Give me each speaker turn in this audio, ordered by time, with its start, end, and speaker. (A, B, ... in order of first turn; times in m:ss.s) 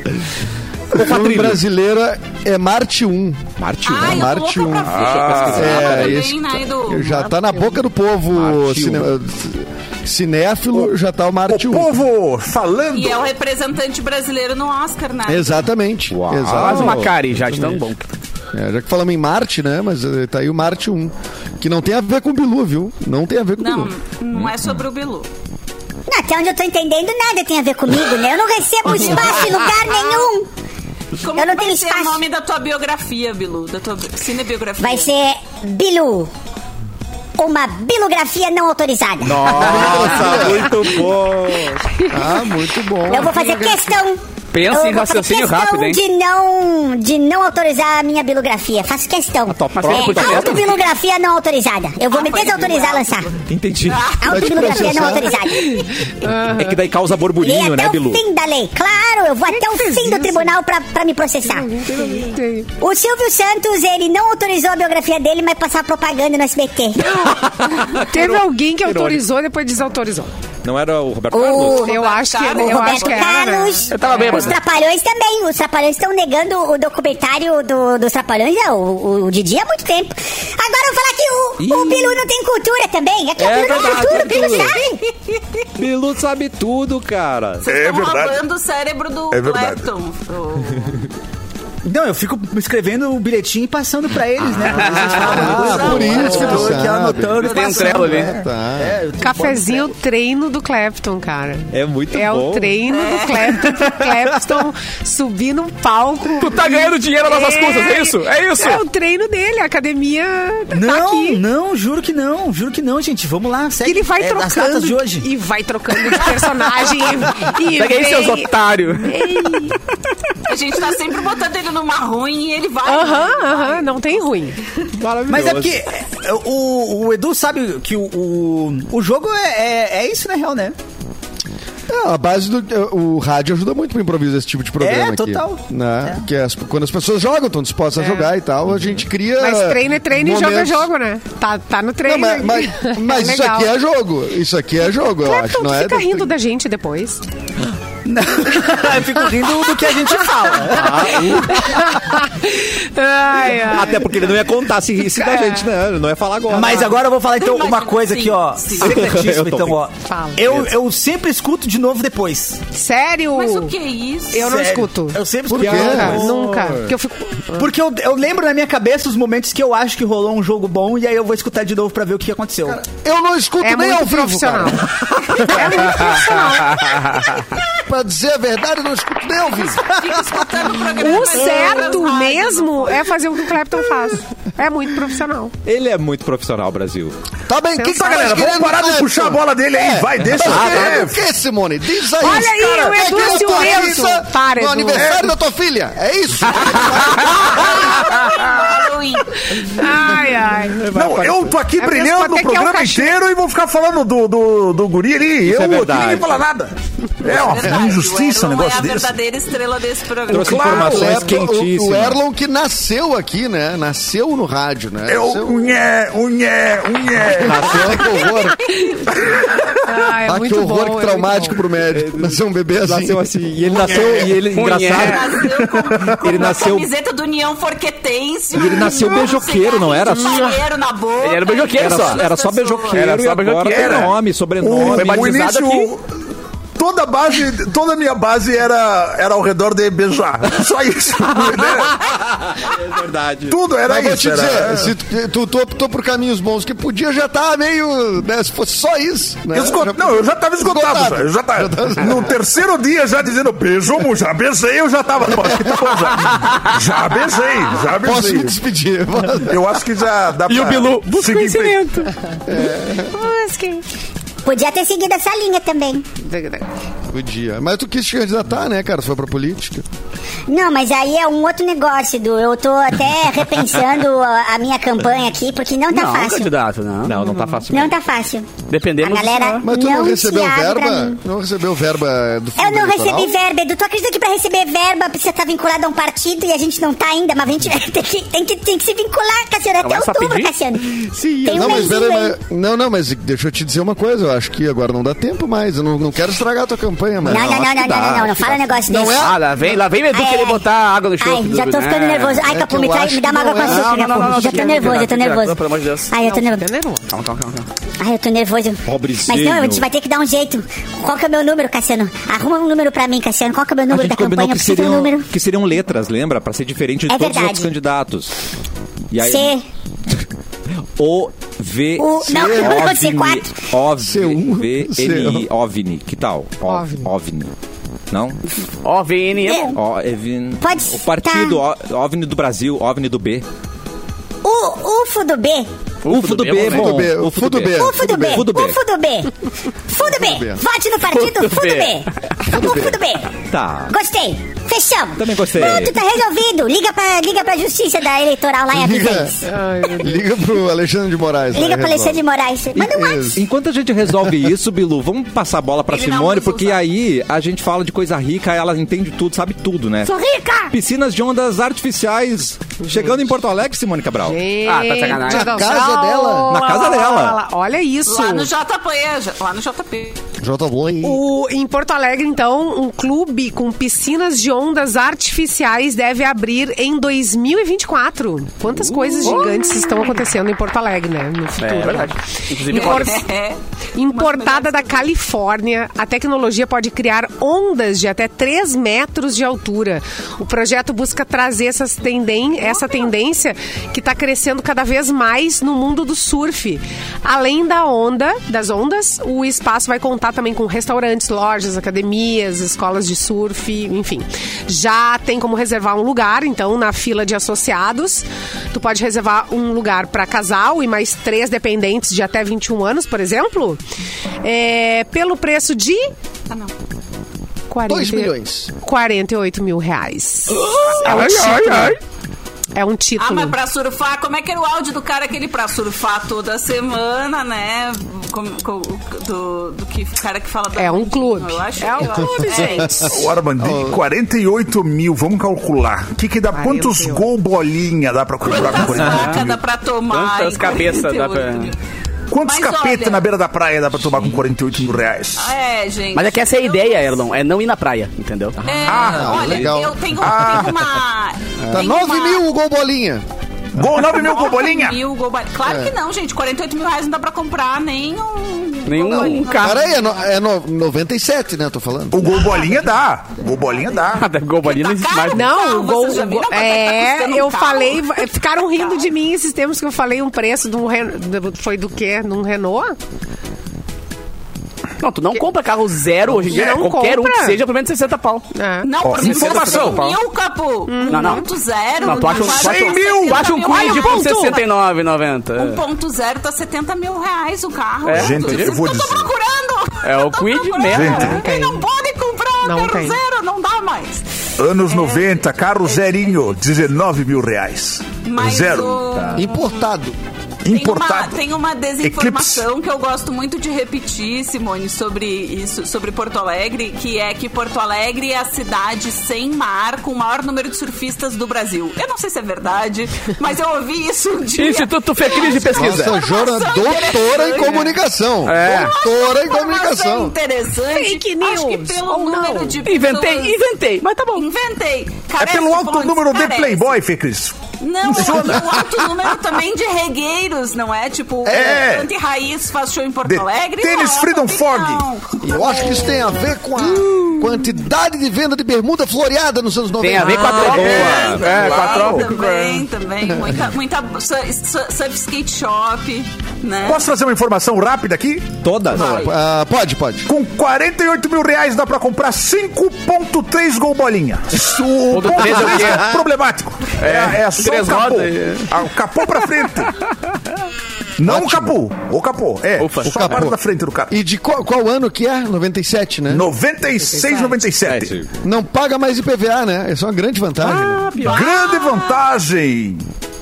0:00.9-0:03.5 A
0:01.0-0:01.6 B
0:03.6-0:04.3 B
0:03.8-0:07.3 C
0:04.0-0:12.0 A
0:04.9-0:05.6 D
0:05.0-0:06.0 E
0:05.3-0:06.2 B
0:08.4-0:09.1 B
0:11.5-0:13.3 D
0:12.9-0:15.7 C
0:15.3-0:17.8 A
0:16.1-0:17.2 B
0:16.5-0:18.1 E
0:18.5-0:23.9 A
0:23.6-0:25.3 C
0:24.3-0:24.8 B
0:26.1-0:30.5 F
0:28.9-0:30.2 C
0:31.2-0:35.1 C
0:31.3-0:32.2 F
0:34.8-0:36.3 F
0:37.4-0:40.1 F
0:39.2-0:42.0 B
0:39.5-0:40.7 A
0:42.1-0:43.4 A
0:43.1-0:53.4 F
0:43.3-0:43.8 G
0:44.5-0:46.0 E
0:49.5-0:50.6 B
0:49.8-0:50.8 E
0:52.1-0:54.8 C
0:53.4-0:55.1 B
0:54.2-0:55.9 F
0:54.3-0:55.3 A
0:55.5-0:56.8 G
0:56.3-0:58.2 B
0:57.4-1:01.7 F
0:59.5-1:00.5 G
1:01.4-1:02.7 G
1:02.8-1:07.2 F
1:07.0-1:07.4 G
1:07.2-1:09.2 B
1:07.9-1:10.3 G
1:10.6-1:11.9 B
1:11.3-1:25.0 F
1:11.7-1:14.5 G
1:11.8-1:13.7 C
1:13.9-1:14.6 E
1:21.6-1:22.2 B
1:23.4-1:24.8 B
1:24.2-1:24.8 C
1:25.8-1:27.6 B
1:27.6-1:31.0 C
1:27.7-1:28.4 D
1:29.3-1:29.8 D
1:31.8-1:40.0 H
1:34.7-1:36.8 E
1:34.8-1:39.0 A
1:35.4-1:38.2 C
1:37.4-1:38.4 E
1:39.2-1:51.4 G
1:41.7-1:42.8 B
1:42.9-1:43.8 C
1:46.4-1:48.8 E
1:50.7-1:55.3 H
1:53.8-1:59.8 G
1:57.6-1:59.2 E
2:00.4-2:04.5 C
2:02.8-2:04.6 G
2:05.0-2:05.8 B
2:05.3-2:10.8 H
2:11.9-2:20.9 A
2:14.8-2:16.2 H
2:18.0-2:18.3 G
2:19.4-2:23.7 G
2:22.0-2:26.3 A
2:25.2-2:27.2 G
2:28.0-2:31.4 H
2:30.1-2:34.3 G
2:30.7-2:32.2 B
2:33.3-2:37.0 B
2:35.1-2:35.6 G
2:36.5-2:42.6 H
2:37.3-2:39.1 C
2:38.8-2:39.8 B
2:40.1-2:40.5 G
2:42.7-2:43.7 G
2:43.4-2:44.6 C
2:44.3-2:47.7 G
2:44.4-2:46.2 H
2:45.5-2:46.2 A
2:45.5-2:46.9 B
2:47.6-2:52.8 H
2:52.7-2:54.8 A
2:53.6-2:57.3 G
2:56.9-2:57.2 E
2:57.8-3:00.5 A
2:59.4-3:03.2 C
3:01.0-3:05.5 G
3:05.7-3:07.2 B
3:07.5-3:18.0 A
3:07.8-3:11.2 D
3:10.3-3:11.0 B
3:12.2-3:15.1 G
3:15.0-3:15.3 D
3:16.8-3:19.4 C
3:19.5-3:20.8 G
3:20.7-3:21.6 B
3:20.9-3:29.1 D
3:21.8-3:23.2 G
3:25.4-3:26.4 B
3:27.2-3:31.0 C
3:30.3-3:32.2 B
3:30.3-3:31.3 D
3:30.6-3:35.7 A
3:35.1-3:38.0 D
3:37.4-3:38.6 A
3:37.4-3:38.0 B
3:38.0-3:39.4 C
3:39.9-3:41.6 G
3:40.3-3:44.2 A
3:41.9-3:46.9 B
3:43.9-3:45.2 E
3:45.0-3:53.0 C
3:48.6-3:50.5 B
3:50.2-3:50.5 G
3:51.2-3:52.3 E
3:51.8-3:55.4 B
3:52.9-3:54.1 E
3:53.7-3:56.0 D
3:54.8-3:55.9 E
3:56.8-4:02.0 D
4:01.3-4:03.6 B
4:03.5-4:04.9 D
4:03.9-4:12.4 A
4:09.5-4:18.6 D
4:18.0-4:19.7 A
4:19.4-4:21.8 D
4:20.5-4:22.1 E
4:22.5-4:23.1 A
4:23.1-4:23.8 G
4:24.4-4:26.0 F
4:26.2-4:26.7 G
4:27.1-4:29.8 A
4:30.5-4:36.5 F
4:35.9-4:37.3 E
4:37.0-4:38.0 B
4:37.7-4:41.2 F
4:38.7-4:39.6 E
4:39.6-4:43.3 A
4:42.6-4:52.4 F
4:49.8-4:50.5 E
4:51.2-4:51.7 B
4:51.4-4:57.7 A
4:57.2-4:58.8 B
4:57.3-4:59.4 F
4:58.9-4:59.4 A
4:59.1-5:02.4 E
5:00.1-5:00.6 F
5:01.2-5:06.7 F
5:02.4-5:03.9 A
5:03.7-5:06.1 E
5:06.2-5:07.1 G
5:07.1-5:07.7 E
5:08.0-5:15.3 F
5:08.9-5:09.9 B
5:13.9-5:18.3 B
5:17.1-5:17.7 F
5:19.1-5:19.5 B
5:19.2-5:19.6 F
5:21.0-5:27.5 B
5:22.0-5:23.6 F
5:22.2-5:22.9 A
5:24.0-5:25.5 A
5:26.7-5:27.1 G
5:28.1-5:28.4 B
5:28.8-5:29.8 E
5:29.4-5:29.7 F
5:29.8-5:33.4 B
5:30.6-5:31.6 F
5:34.4-5:35.7 F
5:36.0-5:37.1 E
5:36.1-5:38.8 B
5:36.7-5:38.4 A
5:37.7-5:39.3 F
5:39.9-5:43.4 F
5:40.0-5:40.6 A
5:41.1-5:42.0 E
5:42.5-5:43.0 A
5:43.5-5:43.9 B
5:43.9-5:49.4 F
5:45.2-5:46.0 B
5:48.7-5:52.2 A
5:49.5-5:50.3 G
5:51.5-5:53.4 F
5:52.8-5:53.4 A
5:53.3-6:00.1 B
5:54.2-5:54.5 A
5:55.9-5:56.9 C
6:00.0-6:00.7 G
6:00.7-6:04.4 B
6:02.8-6:03.2 G
6:04.3-6:08.5 G
6:04.6-6:05.7 E
6:05.3-6:06.6 A
6:06.5-6:07.4 B
6:08.1-6:10.2 C
6:10.4-6:11.2 A
6:11.0-6:23.3 G
6:19.0-6:20.1 E
6:21.6-6:23.3 E
6:22.7-6:23.6 C
6:24.0-6:53.8 G
6:24.1-6:25.1 C
6:32.7-6:33.0 C
6:54.4-6:56.1 G
6:57.7-7:02.0 G
6:57.9-6:58.7 A
7:00.5-7:02.0 E
7:02.8-7:03.6 G
7:03.2-7:13.2 C
7:10.8-7:13.2 G
7:12.6-7:14.0 A
7:13.0-7:19.6 D
7:16.5-7:17.3 G
7:18.4-7:21.8 C
7:20.1-7:21.7 E
7:22.3-7:25.5 D
7:22.4-7:23.3 C
7:25.4-7:27.3 C
7:26.2-7:28.6 E
7:28.6-7:29.3 B
7:28.6-7:32.4 C
7:28.9-7:31.0 D
7:29.1-7:30.2 A
7:31.7-7:33.2 A
7:33.7-7:35.0 D
7:34.0-7:40.2 C
7:35.6-7:35.9 A
7:38.9-7:39.8 E
7:39.3-7:42.4 A
7:42.1-7:44.3 D
7:44.1-7:45.5 E
7:44.6-7:49.1 C
7:45.3-7:53.0 G
7:55.0-7:58.5 E
7:56.5-7:57.6 G
7:56.5-7:56.9 D
7:58.5-7:58.9 G
7:58.8-8:04.6 C
7:59.0-8:00.1 D
7:59.1-8:00.2 E
8:00.9-8:01.4 G
8:01.1-8:05.8 E
8:02.4-8:03.9 D
8:03.8-8:04.2 G
8:05.6-8:14.2 C
8:08.1-8:08.7 E
8:08.1-8:09.3 D
8:10.0-8:11.4 E
8:10.9-8:11.4 D
8:11.2-8:11.8 G
8:12.6-8:13.2 G
8:14.6-8:19.4 D
8:14.9-8:16.4 C
8:18.2-8:19.9 C
8:19.3-8:20.2 A
8:20.6-8:21.4 D
8:20.7-8:38.0 C
8:22.0-8:22.7 D
8:34.6-8:36.2 E
8:35.7-8:40.3 A
8:38.4-8:38.9 E
8:38.5-8:43.7 C
8:40.9-8:42.8 G
8:42.8-8:44.5 E
8:44.4-8:46.9 C
8:45.4-8:49.3 D
8:47.8-8:56.0 C
8:51.5-8:51.7 A
8:51.5-8:52.1 D
8:53.2-8:55.0 D
8:55.4-9:01.1 A
9:00.0-9:02.8 E
9:00.2-9:01.4 B
9:00.8-9:07.1 C
9:00.9-9:02.3 D
9:06.8-9:09.2 D
9:08.6-9:09.2 B
9:08.9-9:09.3 C
9:09.1-9:10.3 A
9:10.3-9:19.9 D
9:15.1-9:16.2 E
9:17.0-9:18.7 E
9:21.2-9:24.2 D
9:21.2-9:21.8 A
9:22.8-9:23.5 E
9:23.1-9:23.6 A
9:24.1-9:26.5 A
9:26.3-9:28.2 D
9:27.1-9:27.5 G
9:27.8-9:28.1 E
9:28.4-9:31.0 A
9:30.6-9:31.5 E
9:31.2-9:32.2 C
9:31.2-9:33.0 D